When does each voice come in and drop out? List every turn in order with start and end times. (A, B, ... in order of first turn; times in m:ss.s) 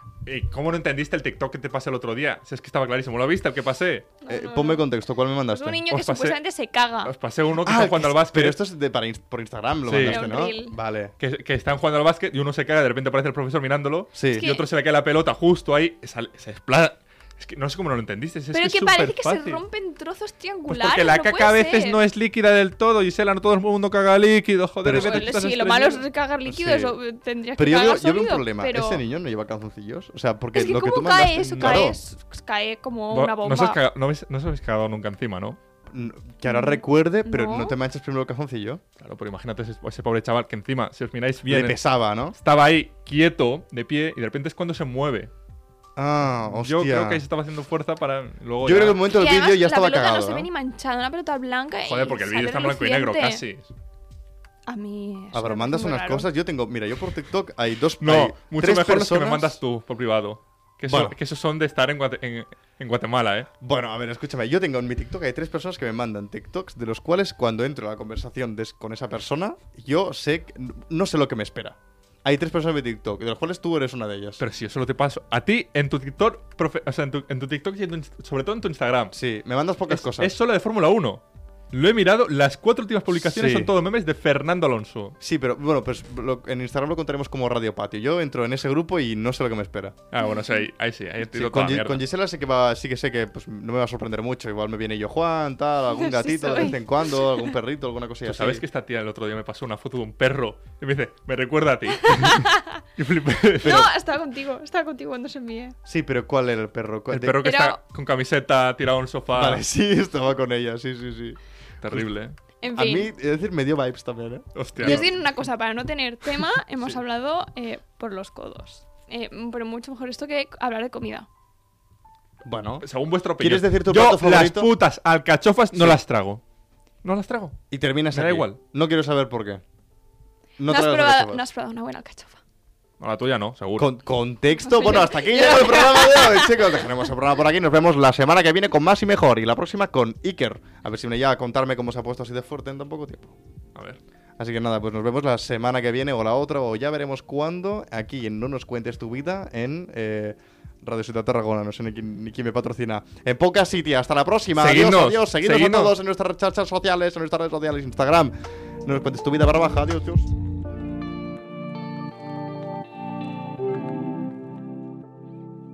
0:00.2-0:04.1 A
0:04.2-0:04.8 B
0:04.3-0:05.8 C
0:05.5-0:07.1 B
0:05.9-0:06.4 A
0:07.0-0:08.6 A
0:07.6-0:11.1 C
0:09.9-0:10.2 A
0:09.9-0:10.7 B
0:11.2-0:19.6 A
0:14.1-0:14.5 C
0:14.3-0:14.6 B
0:18.5-0:22.0 B
0:20.7-0:26.0 A
0:24.8-0:25.3 C
0:24.9-0:29.0 B
0:26.4-0:27.0 C
0:27.6-0:32.0 C
0:30.5-0:33.8 B
0:31.6-0:31.9 A
0:33.1-0:35.6 A
0:35.9-0:38.8 C
0:36.5-0:37.7 B
0:39.0-0:41.8 A
0:41.5-0:42.4 C
0:42.3-0:45.3 A
0:46.0-0:47.2 C
0:46.6-0:49.0 A
0:48.6-0:50.5 C
0:49.1-0:53.4 B
0:51.8-0:53.7 A
0:54.7-0:56.3 B
0:55.3-0:59.6 C
0:58.0-1:03.5 A
1:00.9-1:01.1 C
1:03.6-1:14.4 C
1:14.4-1:19.2 A
1:19.1-1:20.3 C
1:19.9-1:25.2 A
1:23.2-1:23.7 C
1:25.2-1:30.0 C
1:30.1-1:32.0 A
1:31.3-1:38.6 C
1:35.9-1:37.5 B
1:38.2-1:43.9 A
1:42.0-1:42.8 B
1:43.6-1:45.8 B
1:45.8-1:47.5 C
1:47.1-1:49.6 A
1:47.4-1:47.8 B
1:49.3-1:52.1 C
1:51.8-1:52.3 A
1:52.6-1:53.1 B
1:52.7-1:55.2 C
1:54.5-1:55.1 A
1:54.8-2:01.3 B
2:02.4-2:02.8 C
2:02.8-2:06.4 A
2:03.4-2:04.7 C
2:07.0-2:07.6 A
2:07.7-2:09.6 C
2:08.1-2:08.6 A
2:10.6-2:11.4 C
2:10.7-2:12.4 B
2:13.0-2:13.9 A
2:13.8-2:23.4 C
2:14.6-2:16.6 B
2:24.4-2:40.3 C
2:34.5-2:35.9 A